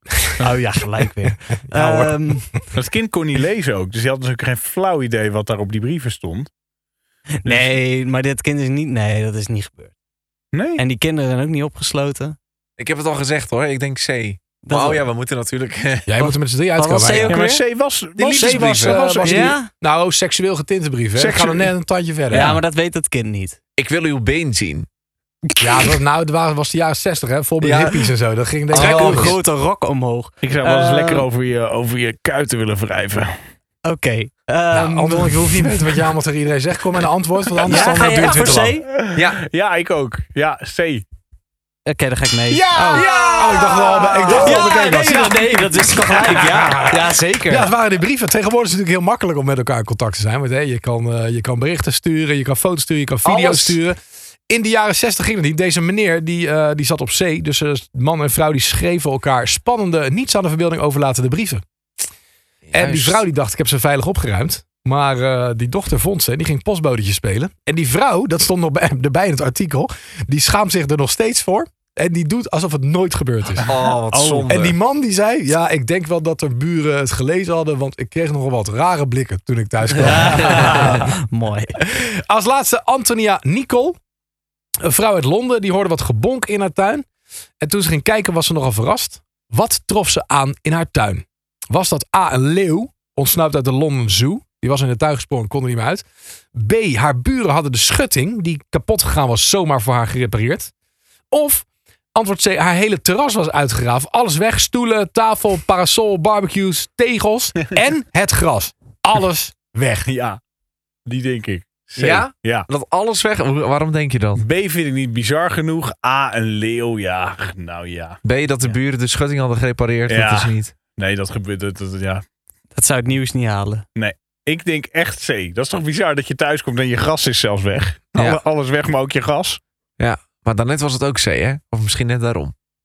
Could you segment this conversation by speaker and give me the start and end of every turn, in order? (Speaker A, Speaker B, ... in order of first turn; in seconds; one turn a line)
Speaker A: 0.4-2.5
Speaker B: 1.7-2.4
Speaker C: 2.7-6.5
Speaker A: 7.4-9.9
Speaker C: 7.5-7.7
Speaker C: 10.5-10.8
Speaker A: 10.8-12.3
Speaker D: 12.8-16.1
Speaker A: 14.6-15.1
Speaker B: 16.1-17.4
Speaker A: 16.2-17.6
Speaker C: 17.3-19.6
Speaker D: 18.2-19.1
Speaker B: 18.3-22.6
Speaker A: 19.2-19.7
Speaker C: 21.1-21.7
Speaker A: 22.3-23.6
Speaker D: 23.8-24.9
Speaker B: 25.6-29.4
Speaker D: 27.6-28.1
Speaker D: 28.7-29.4
Speaker A: 28.7-31.2
Speaker C: 30.4-33.4
Speaker A: 33.8-36.0
Speaker B: 34.7-38.8
Speaker A: 37.6-38.9
Speaker C: 38.9-41.0
Speaker D: 39.1-39.4
Speaker A: 41.9-43.7
Speaker C: 42.5-43.5
Speaker D: 42.7-44.9
Speaker B: 42.7-54.0
Speaker C: 44.2-44.6
Speaker A: 44.2-47.7
Speaker D: 53.2-53.8
Speaker B: 54.5-61.6
Speaker D: 62.6-63.2
Speaker B: 62.7-73.7
Speaker D: 73.6-74.7
Speaker A: 74.1-74.5
Speaker B: 74.5-81.0
Speaker A: 79.9-81.8
Speaker D: 80.5-80.9
Speaker B: 82.1-84.0
Speaker B: 84.8-87.0
Speaker B: 87.6-100.7
Speaker B: 101.3-110.1
Speaker C: 110.0-110.4
Speaker C: 111.0-112.7
Speaker D: 112.0-114.4
Speaker C: 114.4-118.2
Speaker D: 118.2-120.7
Speaker C: 120.1-122.2
Speaker A: 122.7-123.8
Speaker C: 123.9-129.6
Speaker D: 130.0-132.5